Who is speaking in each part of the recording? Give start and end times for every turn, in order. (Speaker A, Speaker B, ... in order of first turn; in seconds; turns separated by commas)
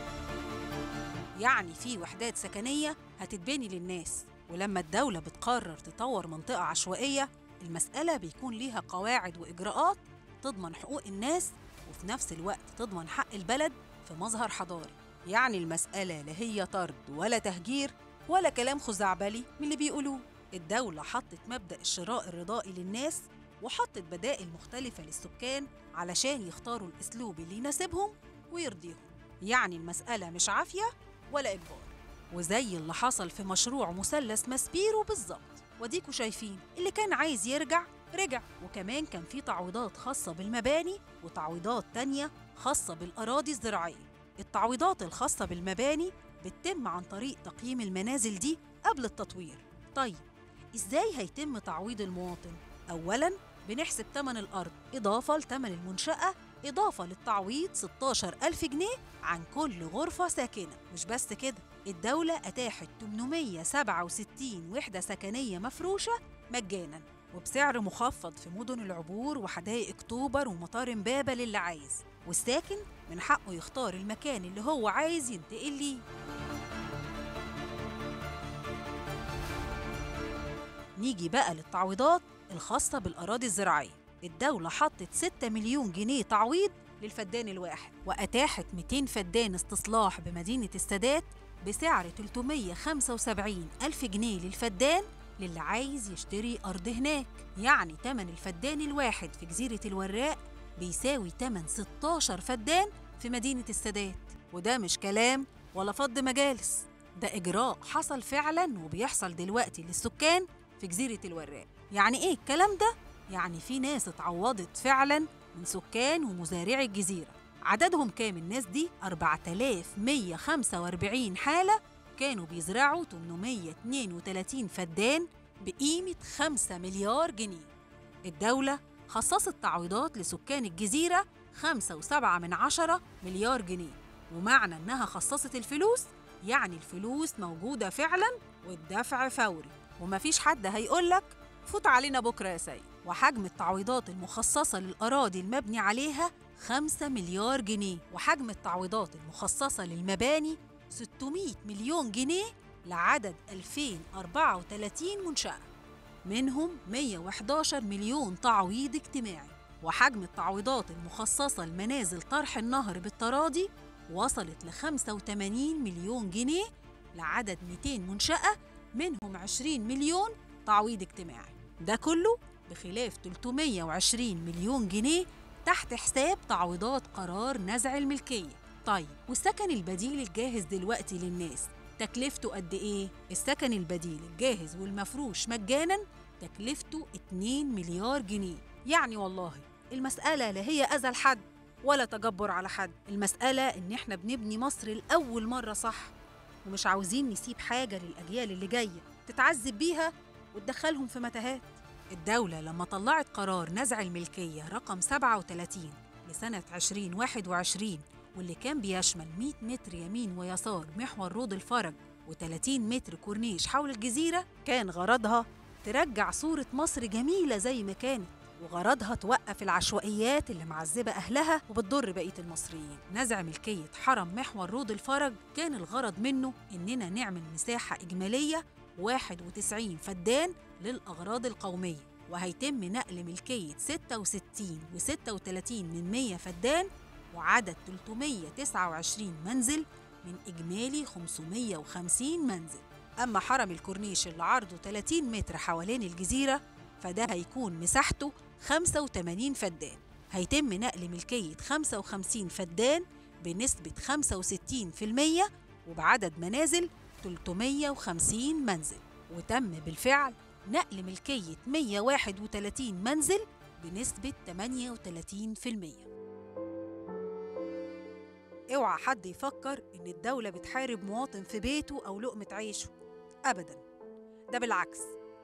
Speaker A: 1.4-50.2, Speaker A: 50.8-76.0, Speaker A: 81.0-127.7, Speaker A: 128.3-155.7, Speaker A: 156.2-196.1, Speaker A: 196.7-266.1, Speaker A: 268.7-272.9, Speaker A: 273.5-273.8, Speaker A: 274.5-275.1